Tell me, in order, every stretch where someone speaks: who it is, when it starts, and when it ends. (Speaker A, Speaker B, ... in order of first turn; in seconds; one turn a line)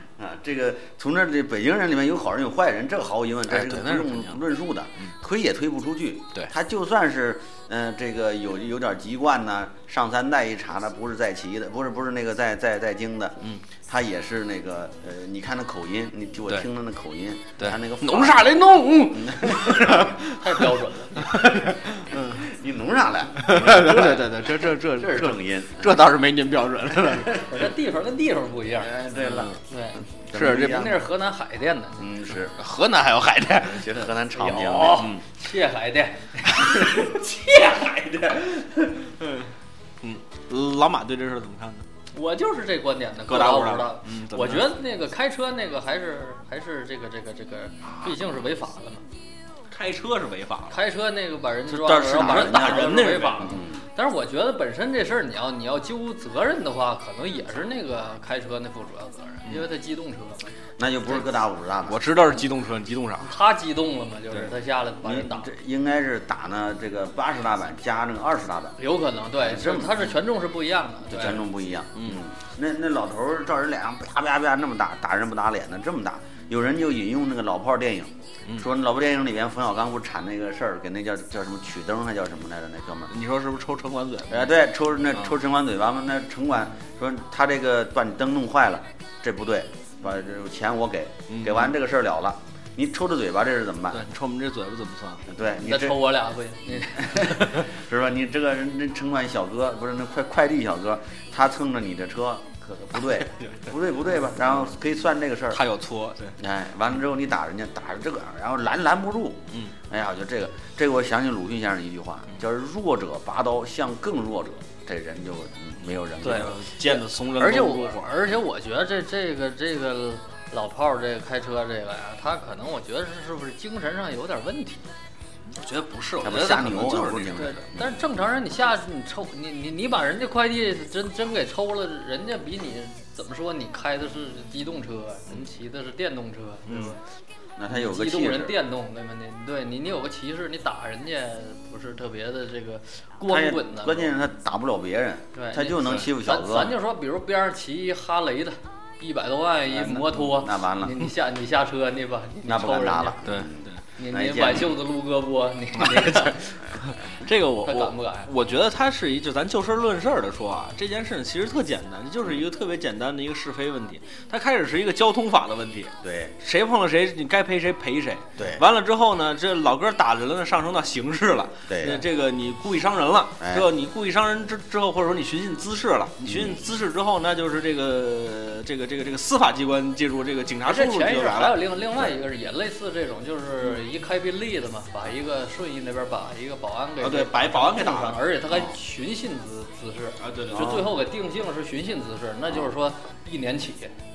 Speaker A: 0.2-18.4
Speaker B: 3.5-4.4
Speaker B: 17.6-22.5
Speaker A: 19.1-20.1
Speaker C: 20.4-21.4
Speaker A: 22.1-26.0
Speaker B: 23.4-27.6
Speaker C: 27.4-28.9
Speaker A: 28.8-29.5
Speaker B: 29.2-29.6
Speaker C: 29.7-32.1
Speaker A: 30.1-31.0
Speaker B: 30.3-30.9
Speaker A: 32.0-32.5
Speaker B: 32.5-34.1
Speaker A: 33.7-35.2
Speaker C: 34.4-39.0
Speaker B: 35.0-35.2
Speaker B: 36.6-37.2
Speaker B: 40.0-41.9
Speaker C: 42.1-49.0
Speaker B: 43.3-44.8
Speaker B: 49.7-50.8
Speaker C: 50.7-60.5
Speaker A: 51.7-53.8
Speaker B: 52.1-53.6
Speaker A: 60.8-62.0
Speaker B: 61.9-63.3
Speaker C: 63.2-65.5
Speaker A: 65.0-68.8
Speaker C: 68.8-71.4
Speaker A: 69.4-70.1
Speaker A: 71.1-83.1
Speaker B: 83.1-84.5
Speaker A: 84.3-94.1
Speaker B: 91.3-91.7
Speaker B: 93.9-95.2
Speaker A: 95.3-96.1
Speaker C: 95.6-97.5
Speaker A: 96.7-105.6
Speaker B: 103.1-103.7
Speaker B: 105.5-106.4
Speaker A: 106.4-116.6
Speaker B: 116.2-118.1
Speaker C: 116.3-124.9
Speaker B: 125.6-127.6
Speaker A: 126.2-127.9
Speaker C: 127.4-137.0
Speaker B: 136.7-136.9
Speaker A: 137.6-138.6
Speaker C: 137.7-144.1
Speaker A: 143.3-146.8
Speaker C: 145.3-153.2
Speaker B: 145.8-146.1
Speaker A: 149.7-151.1
Speaker A: 152.4-154.7
Speaker B: 153.2-153.8
Speaker C: 154.0-156.6
Speaker B: 155.8-181.6
Speaker C: 157.7-158.3
Speaker A: 166.0-166.3
Speaker A: 168.4-168.7
Speaker A: 171.7-172.0
Speaker A: 173.4-173.7
Speaker A: 176.2-176.6
Speaker C: 180.7-193.9
Speaker B: 187.0-188.3
Speaker B: 190.2-190.8
Speaker A: 190.5-190.9